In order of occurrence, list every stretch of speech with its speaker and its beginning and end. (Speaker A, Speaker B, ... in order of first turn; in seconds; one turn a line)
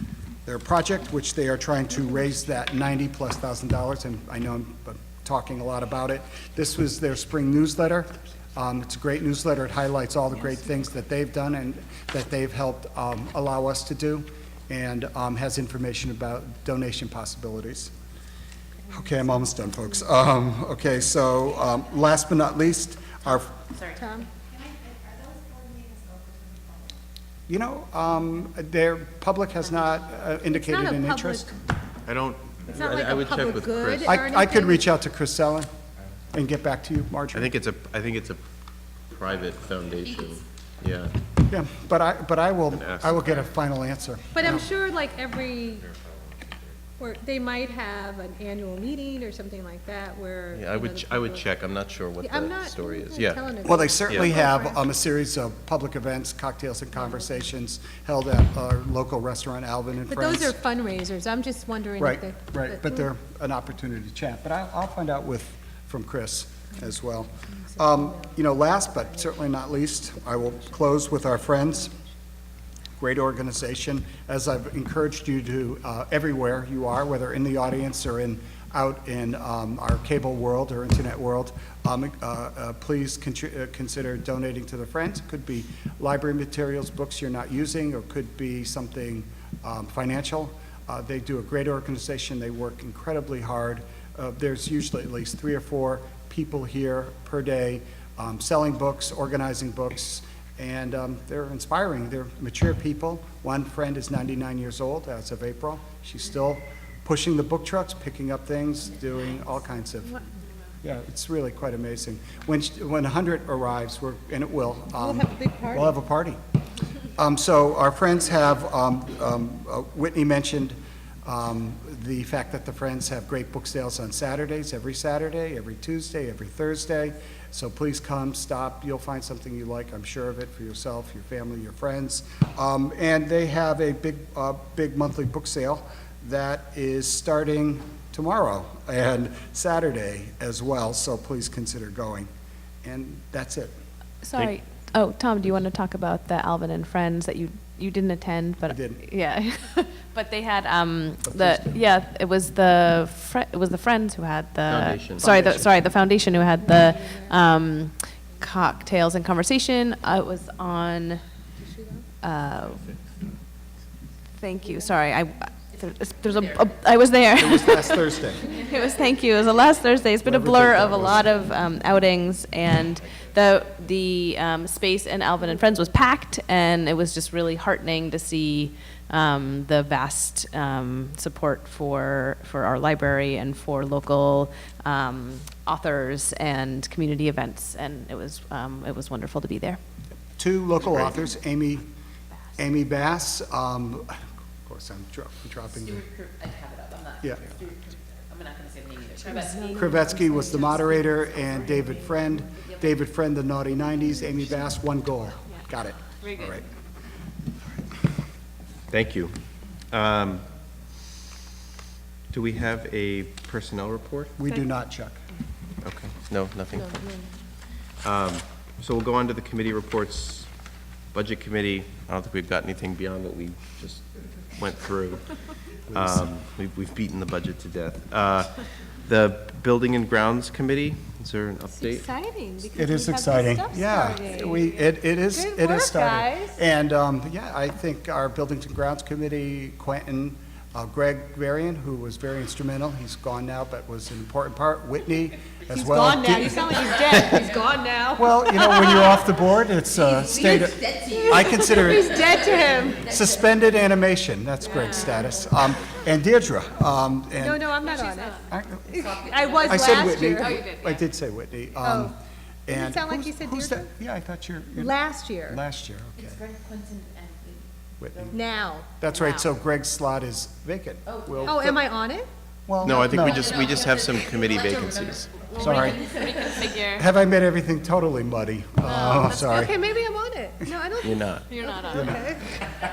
Speaker A: 0.5-17.9
Speaker A: 18.9-23.5
Speaker B: 23.9-24.3
Speaker A: 27.5-31.5
Speaker B: 30.4-31.5
Speaker C: 32.0-34.2
Speaker B: 32.7-34.9
Speaker A: 34.1-35.7
Speaker A: 36.3-37.5
Speaker C: 37.3-38.4
Speaker C: 39.1-41.2
Speaker A: 41.5-44.7
Speaker C: 42.7-43.5
Speaker B: 44.3-45.9
Speaker C: 46.0-46.6
Speaker B: 47.0-51.5
Speaker C: 50.5-53.5
Speaker B: 52.2-54.8
Speaker A: 53.6-60.6
Speaker C: 54.1-54.3
Speaker B: 60.1-63.1
Speaker A: 62.0-72.0
Speaker A: 73.0-110.2
Speaker A: 110.8-116.4
Speaker B: 115.0-115.9
Speaker A: 117.2-142.3
Speaker A: 142.8-143.7
Speaker D: 144.2-161.2
Speaker A: 148.7-149.0
Speaker A: 151.2-151.8
Speaker C: 154.7-155.7
Speaker B: 161.6-162.1
Speaker D: 162.2-162.9
Speaker D: 164.4-189.8
Speaker A: 167.4-168.5
Speaker A: 170.2-171.3
Speaker A: 190.4-191.9
Speaker A: 192.6-196.1
Speaker E: 196.1-199.7
Speaker B: 199.2-201.9
Speaker A: 199.8-206.7
Speaker D: 206.2-206.6
Speaker C: 208.9-210.5
Speaker C: 212.3-214.3
Speaker A: 214.4-215.2
Speaker C: 215.8-217.2
Speaker C: 218.0-220.5
Speaker C: 221.1-232.1
Speaker A: 225.9-226.2
Speaker B: 231.7-236.6
Speaker A: 232.8-247.1
Speaker B: 245.7-249.2
Speaker A: 248.2-257.7
Speaker E: 250.2-253.2
Speaker B: 251.1-253.0
Speaker B: 254.7-255.4
Speaker B: 257.4-260.7
Speaker D: 257.8-258.4
Speaker A: 258.5-259.1
Speaker E: 259.0-259.9
Speaker A: 259.6-262.1
Speaker D: 260.3-261.1
Speaker B: 261.8-262.1
Speaker A: 262.7-266.4
Speaker B: 262.7-263.9
Speaker B: 264.8-265.6
Speaker E: 266.3-267.6
Speaker A: 268.0-268.4
Speaker B: 268.3-268.9
Speaker A: 269.0-271.8
Speaker B: 271.5-272.3
Speaker A: 272.7-273.6
Speaker C: 272.8-275.4
Speaker E: 273.3-276.5
Speaker D: 275.4-277.1
Speaker A: 275.6-276.1
Speaker A: 276.8-279.8
Speaker B: 278.9-282.5
Speaker C: 281.0-281.5
Speaker D: 281.5-282.2
Speaker A: 281.9-282.2